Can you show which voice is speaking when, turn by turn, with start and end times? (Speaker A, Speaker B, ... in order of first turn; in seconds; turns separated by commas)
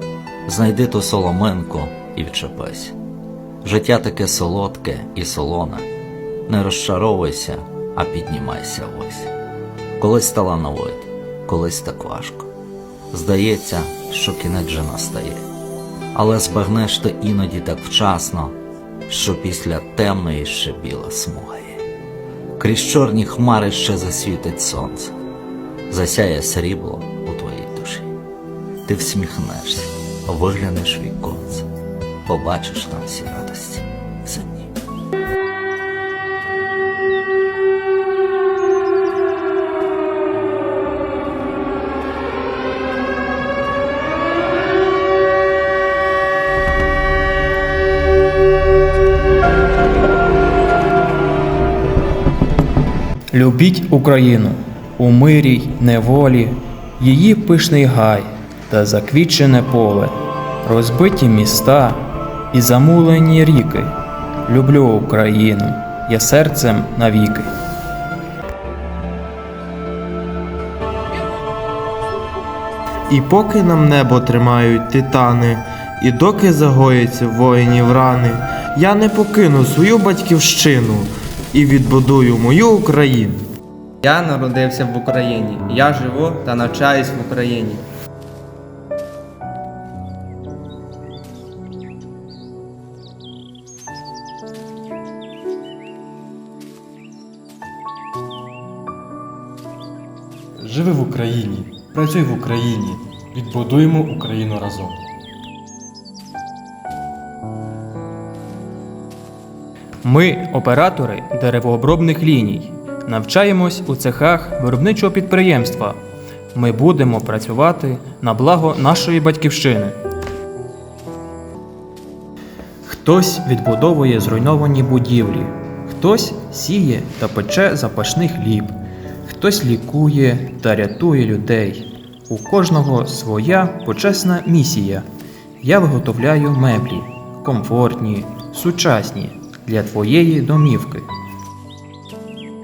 Speaker A: 0.5-3.0, Speaker A: 3.6-5.9, Speaker A: 6.5-9.3, Speaker A: 10.0-12.5, Speaker A: 13.1-15.4, Speaker A: 16.1-18.6, Speaker A: 19.1-21.8, Speaker A: 22.6-25.1, Speaker A: 25.9-28.1, Speaker A: 28.9-31.7, Speaker A: 32.3-34.7, Speaker B: 53.3-64.0, Speaker B: 64.5-67.5, Speaker C: 73.1-83.4, Speaker D: 84.0-87.9, Speaker E: 100.6-105.0, Speaker B: 110.0-116.0, Speaker B: 116.5-120.0, Speaker B: 122.8-135.1, Speaker B: 135.6-141.1